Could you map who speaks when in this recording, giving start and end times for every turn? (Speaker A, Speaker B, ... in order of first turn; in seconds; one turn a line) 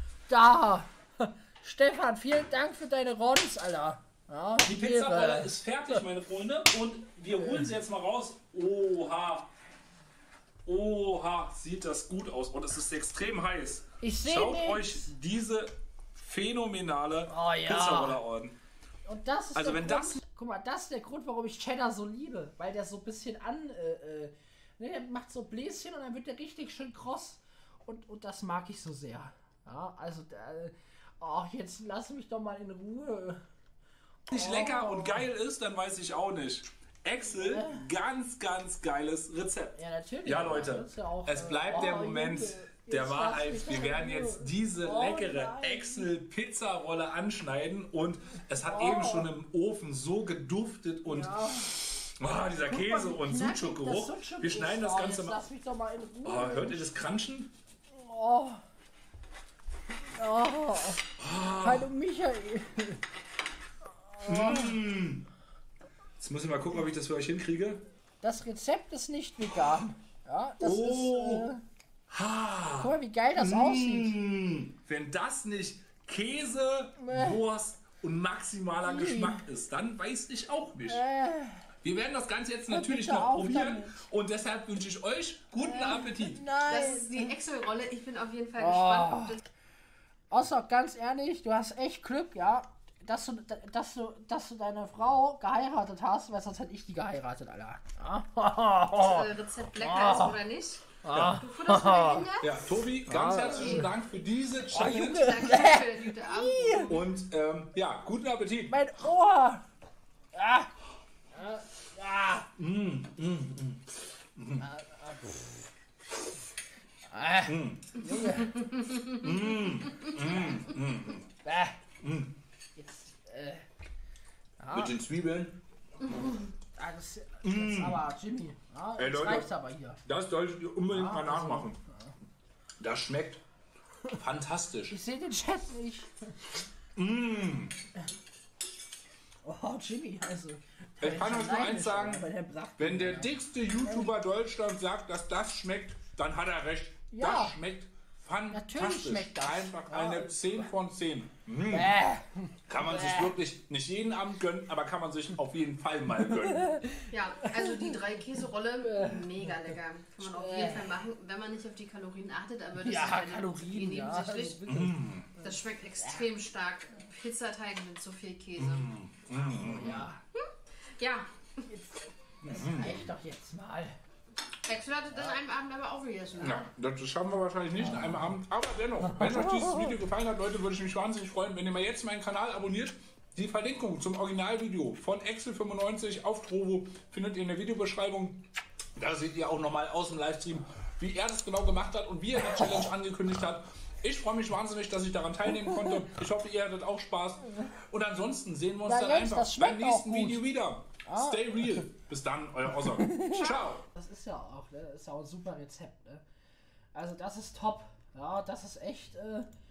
Speaker A: 0.3-6.0
Speaker B: 4.6-9.5
Speaker B: 10.7-18.6
Speaker A: 14.0-15.1
Speaker A: 17.3-18.2
Speaker A: 19.1-33.4
Speaker B: 19.5-20.2
Speaker A: 34.3-35.2
Speaker B: 34.3-55.4
Speaker A: 37.3-37.9
Speaker A: 39.8-46.1
Speaker A: 48.6-49.3
Speaker A: 51.1-51.8
Speaker A: 52.6-56.9
Speaker B: 56.2-57.5
Speaker A: 57.9-58.6
Speaker A: 60.1-63.0
Speaker B: 61.2-61.9
Speaker A: 64.1-64.8
Speaker B: 64.2-65.3
Speaker B: 66.2-67.8
Speaker A: 68.2-71.6
Speaker B: 70.6-71.5
Speaker B: 72.1-81.0
Speaker A: 72.8-74.2
Speaker A: 77.0-77.4
Speaker A: 78.8-79.5
Speaker A: 80.9-81.7
Speaker B: 81.8-86.5
Speaker A: 82.7-84.0
Speaker A: 85.6-87.3
Speaker C: 86.7-89.4
Speaker A: 88.6-89.4
Speaker A: 90.3-100.4
Speaker C: 98.9-102.6
Speaker A: 101.0-102.2
Speaker B: 101.1-101.4
Speaker B: 102.4-105.3
Speaker A: 103.1-103.9
Speaker C: 103.5-103.9
Speaker A: 104.7-106.9
Speaker C: 104.7-107.1
Speaker B: 106.9-108.7
Speaker A: 108.7-109.6
Speaker A: 110.3-110.7
Speaker A: 111.3-112.5
Speaker B: 112.6-114.7
Speaker A: 114.6-115.7
Speaker A: 117.1-118.7
Speaker B: 117.5-118.0
Speaker B: 119.0-121.3
Speaker A: 120.2-120.6
Speaker A: 121.4-121.8
Speaker B: 122.0-122.3
Speaker A: 122.8-123.6
Speaker A: 124.6-125.0
Speaker B: 124.7-125.6
Speaker A: 126.1-130.0
Speaker B: 127.4-128.0
Speaker B: 129.0-129.5
Speaker B: 130.1-131.8
Speaker A: 130.9-132.1
Speaker B: 132.8-133.4
Speaker B: 134.1-134.9
Speaker A: 134.9-136.5
Speaker B: 136.9-137.8
Speaker A: 139.4-144.1
Speaker B: 141.0-151.9
Speaker A: 147.1-147.6
Speaker A: 148.5-150.7
Speaker A: 151.7-153.4
Speaker B: 152.7-156.8
Speaker A: 156.2-158.0
Speaker C: 157.1-164.6
Speaker A: 158.8-159.5
Speaker A: 160.2-160.9
Speaker A: 162.8-166.2
Speaker B: 164.7-165.3
Speaker C: 165.4-168.9
Speaker B: 168.6-170.1
Speaker A: 169.3-170.2
Speaker C: 170.3-171.6
Speaker A: 171.7-173.9
Speaker B: 172.4-173.0
Speaker C: 174.7-176.7
Speaker B: 176.4-188.4
Speaker A: 177.8-178.3
Speaker A: 179.0-179.9
Speaker B: 189.0-203.8
Speaker A: 195.6-196.1
Speaker A: 198.8-200.5
Speaker A: 201.1-201.9
Speaker A: 202.8-206.2
Speaker A: 206.9-209.5